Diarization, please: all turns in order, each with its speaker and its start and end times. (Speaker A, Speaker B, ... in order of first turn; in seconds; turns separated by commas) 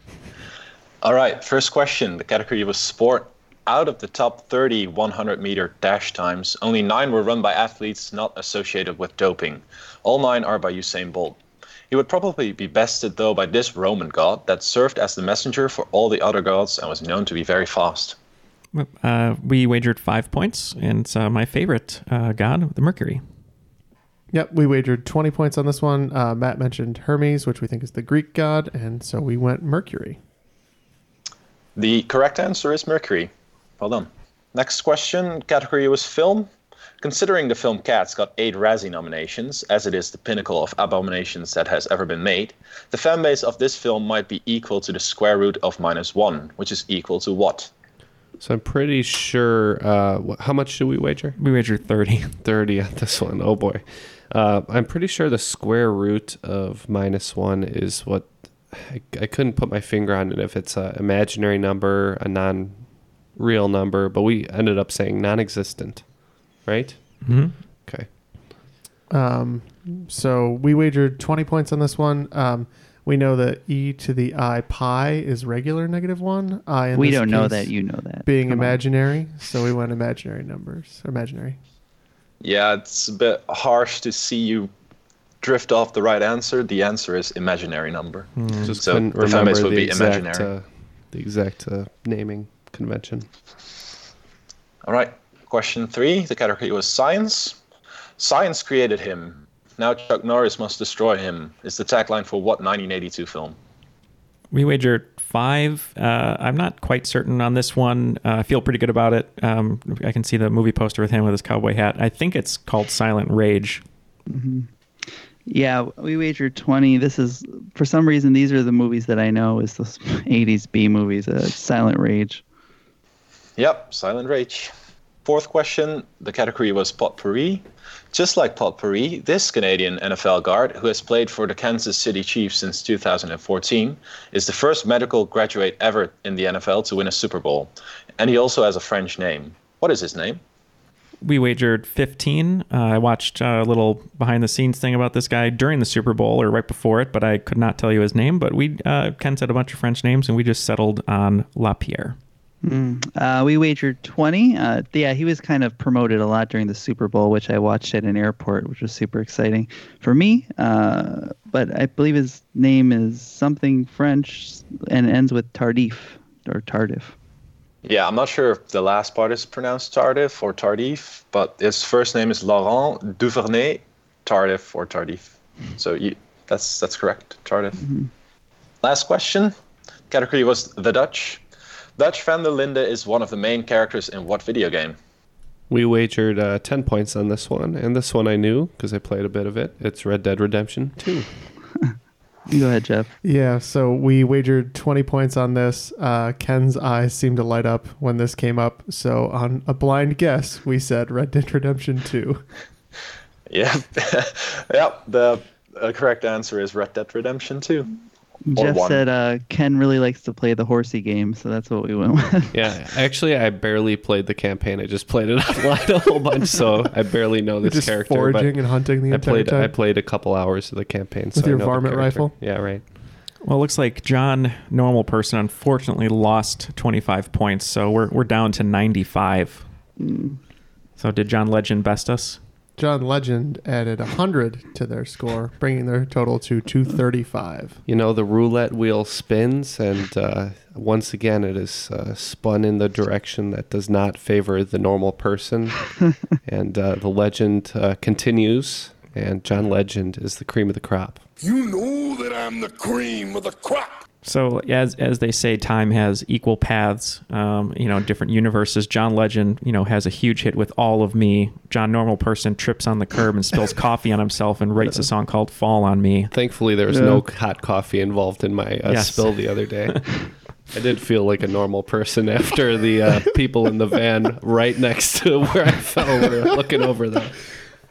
Speaker A: 1.0-18.1, Speaker B: 18.7-23.2, Speaker C: 24.3-30.2, Speaker A: 31.8-36.5, Speaker A: 37.0-47.7, Speaker D: 48.4-51.4, Speaker B: 51.4-52.4, Speaker D: 52.4-62.8, Speaker D: 63.4-66.1, Speaker D: 66.6-68.1, Speaker B: 67.2-67.5, Speaker C: 69.1-77.7, Speaker E: 76.9-78.8, Speaker C: 78.2-81.6, Speaker A: 82.4-84.7, Speaker A: 85.4-90.5, Speaker B: 88.4-88.7, Speaker D: 88.6-93.3, Speaker A: 94.8-97.6, Speaker A: 98.2-103.5, Speaker B: 104.5-113.8, Speaker E: 114.3-122.4, Speaker A: 123.6-124.7, Speaker A: 125.2-140.4, Speaker B: 141.2-152.2, Speaker E: 152.6-167.1, Speaker A: 167.8-177.8, Speaker E: 177.8-178.1, Speaker A: 178.8-179.5, Speaker A: 180.1-181.4, Speaker A: 182.0-185.0, Speaker D: 185.7-191.2, Speaker E: 192.5-193.1, Speaker C: 193.2-202.4, Speaker A: 203.5-207.9, Speaker E: 208.4-212.6, Speaker A: 208.5-209.0, Speaker D: 212.5-222.8, Speaker C: 217.6-219.7, Speaker C: 221.3-222.3, Speaker B: 223.4-229.6, Speaker E: 230.0-230.4, Speaker B: 231.0-232.4, Speaker C: 232.8-237.8, Speaker D: 237.9-251.2, Speaker F: 251.4-254.0, Speaker B: 254.2-266.3, Speaker D: 266.3-270.0, Speaker E: 266.9-267.2, Speaker B: 268.9-270.0, Speaker D: 270.7-277.4